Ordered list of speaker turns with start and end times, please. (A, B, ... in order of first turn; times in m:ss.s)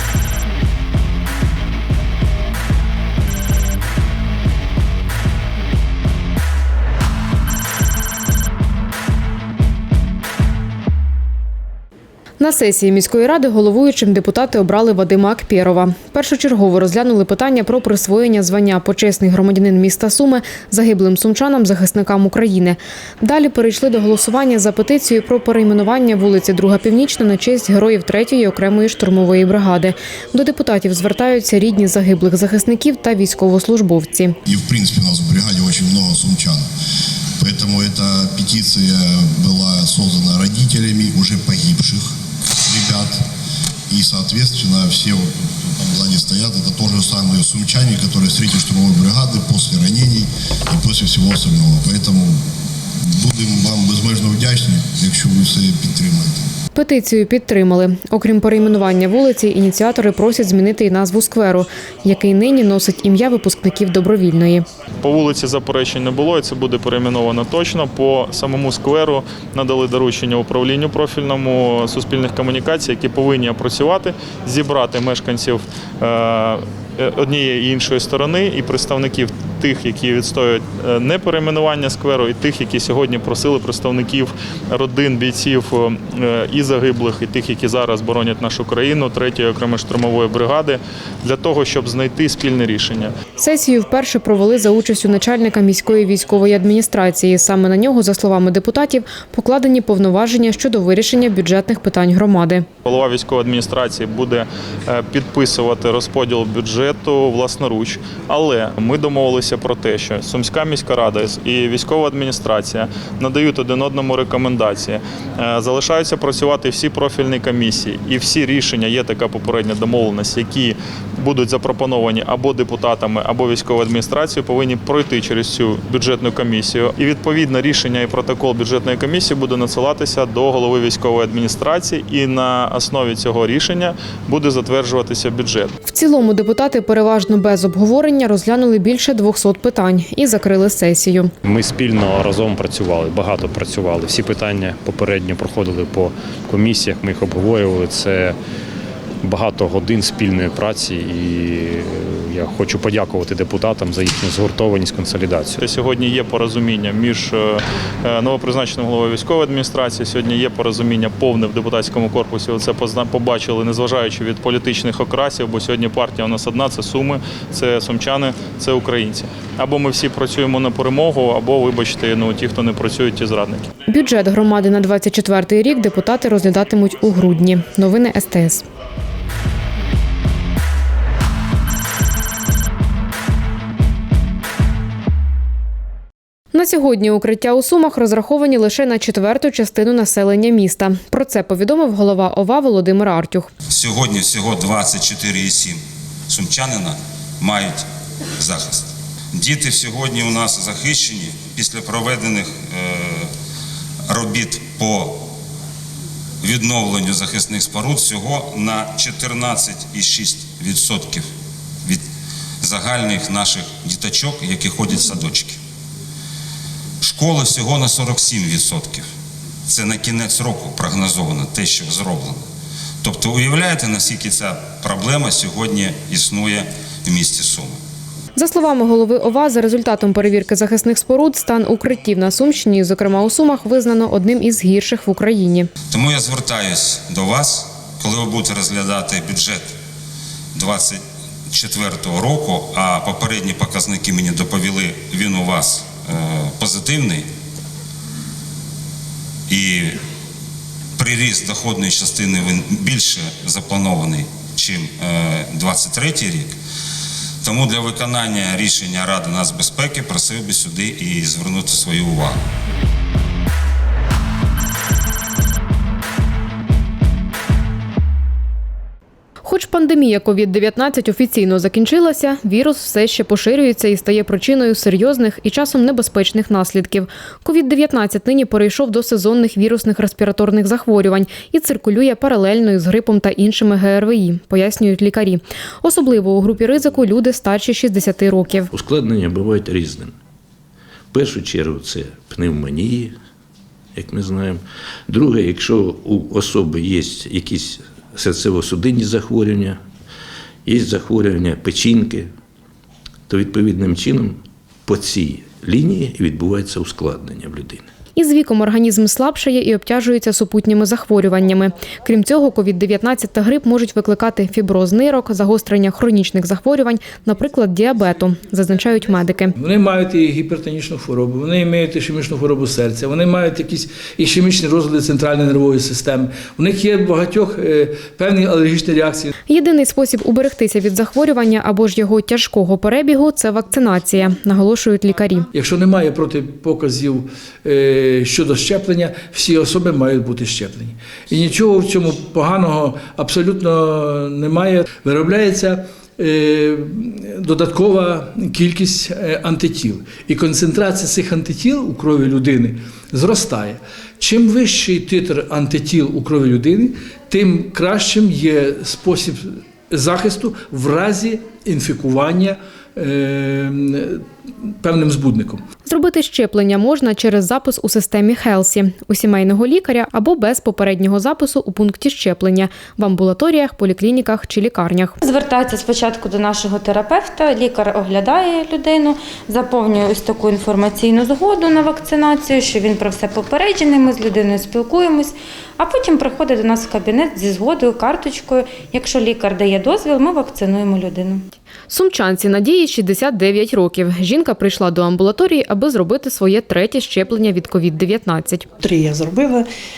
0:12.4-0:34.3 A
0:34.5-0:36.6 B
0:37.4-0:42.1 B
0:42.6-0:43.2 B
0:43.9-0:52.4 B
0:53.2-0:56.4 B
0:56.7-1:04.6 A
1:05.0-1:33.1 C
1:33.4-1:42.6 A
1:42.8-2:15.7 C
2:15.8-2:21.3 A
2:21.4-2:28.4 D
2:29.2-2:35.6 D
2:35.6-2:53.7 C
2:53.9-2:58.6 A
3:06.5-3:13.5 A
3:13.7-3:17.8 E
3:18.4-3:23.3 E
3:24.1-3:25.2 E
3:26.4-3:31.2 E
3:32.6-3:35.6 E
3:37.0-3:39.0 E
3:39.7-3:42.4 E
3:43.0-3:47.8 E
3:48.4-3:55.7 A
3:55.9-3:59.7 E
4:00.5-4:07.2 E
4:09.5-4:10.0 E
4:11.0-4:16.5 E
4:17.4-4:22.4 E
4:29.4-4:48.7 A
4:48.7-4:50.2 F
4:51.1-4:53.1 F
4:53.9-4:59.8 F
5:00.6-5:02.3 F
5:03.3-5:07.9 F
5:08.2-5:19.5 A
5:19.6-5:29.3 G
5:29.5-5:35.5 A
5:35.5-6:04.2 G
6:04.8-6:05.6 G
6:05.8-6:15.2 A
6:15.2-6:31.4 H
6:31.9-6:38.6 A
6:38.8-6:39.7 G